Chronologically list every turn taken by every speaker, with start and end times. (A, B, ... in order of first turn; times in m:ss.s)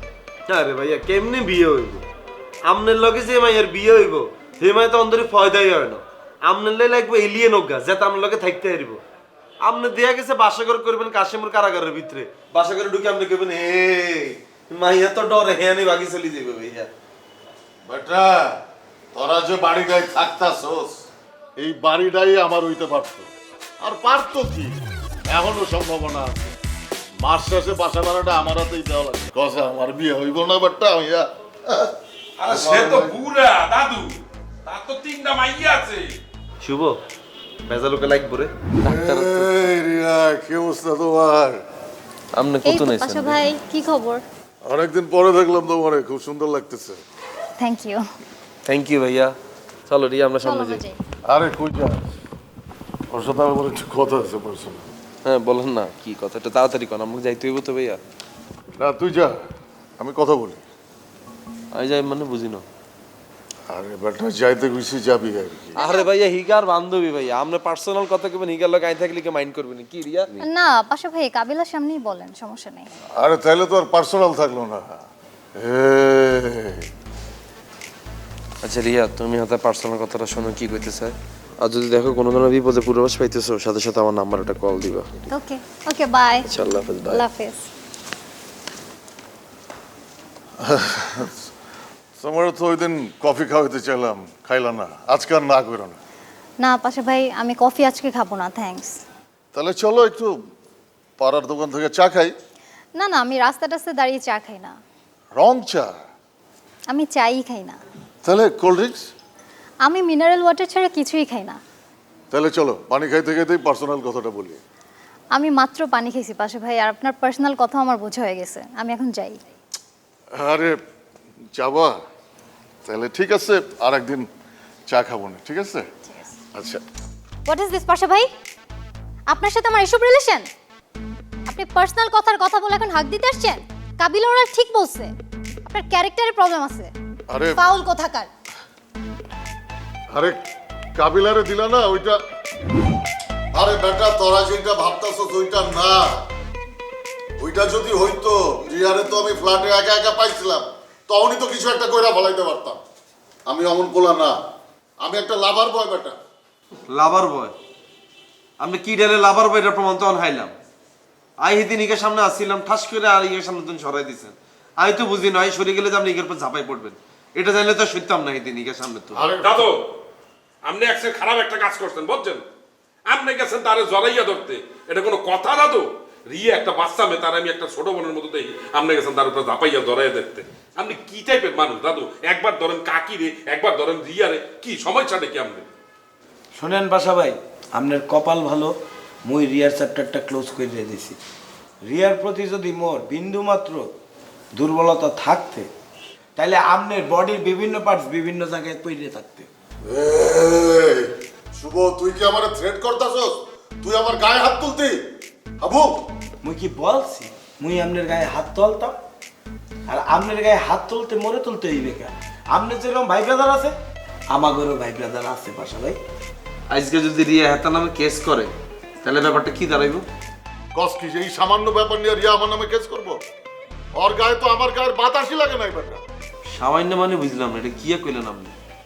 0:00.5-0:02.0 A
0:02.6-0:09.0 A
0:09.6-0:16.9 A
0:17.8-0:18.5 B
0:19.1-0:20.9 B
0:21.6-0:26.6 B
0:27.2-0:31.9 B
0:32.4-0:36.2 C
0:32.4-0:33.2 B
0:36.6-0:37.0 A
0:37.6-0:39.6 A
0:38.8-0:41.6 B
0:42.3-0:43.4 A
0:42.6-0:44.2 D
0:44.6-0:47.0 B
0:47.6-0:48.0 D
0:48.6-0:49.3 A
0:49.9-0:50.8 A
0:50.4-0:51.0 D
0:51.2-0:52.1 B
0:53.1-0:54.9 B
0:55.2-0:58.0 A
0:58.8-0:59.3 B
1:00.0-1:00.6 B
1:01.7-1:02.6 A
1:03.7-1:05.8 B
1:05.8-1:10.3 A
1:05.8-1:06.1 D
1:10.4-1:12.9 D
1:13.2-1:15.0 B
1:15.6-1:16.8 B
1:18.6-1:25.3 A
1:25.3-1:26.5 D
1:26.5-1:27.2 A
1:27.0-1:27.6 D
1:30.6-1:31.3 B
1:32.2-1:36.0 B
1:36.6-1:39.0 D
1:39.5-1:40.3 B
1:41.2-1:42.3 B
1:43.0-1:44.8 D
1:45.4-1:45.9 B
1:46.9-1:47.8 D
1:48.2-1:49.1 B
1:49.8-1:51.6 D
1:52.3-1:54.6 B
1:55.3-1:59.4 D
2:00.3-2:00.8 B
2:01.5-2:02.0 B
2:02.8-2:04.3 B
2:04.9-2:05.9 B
2:06.1-2:06.3 D
2:06.5-2:06.8 B
2:07.5-2:08.3 D
2:09.3-2:10.5 D
2:11.5-2:15.1 D
2:15.6-2:16.9 D
2:17.3-2:17.6 B
2:17.4-2:18.3 D
2:20.1-2:20.4 B
2:21.0-2:22.2 B
2:23.5-2:26.0 B
2:27.4-2:32.8 B
2:33.5-2:34.3 B
2:35.0-2:36.1 B
2:36.9-2:37.5 A
2:38.6-2:40.5 A
2:41.4-2:49.2 A
2:49.1-2:49.7 B
2:49.4-2:49.8 C
2:50.6-2:52.4 C
2:53.0-3:05.6 C
3:06.5-3:11.2 E
3:11.8-3:13.9 E
3:14.5-3:15.7 E
3:16.4-3:19.5 E
3:19.8-3:25.0 B
3:25.6-3:26.0 B
3:26.4-3:29.0 E
3:29.9-3:33.8 E
3:34.3-3:36.0 E
3:36.7-3:40.0 A
3:40.7-3:43.2 B
3:43.9-3:46.0 B
3:46.5-3:48.5 A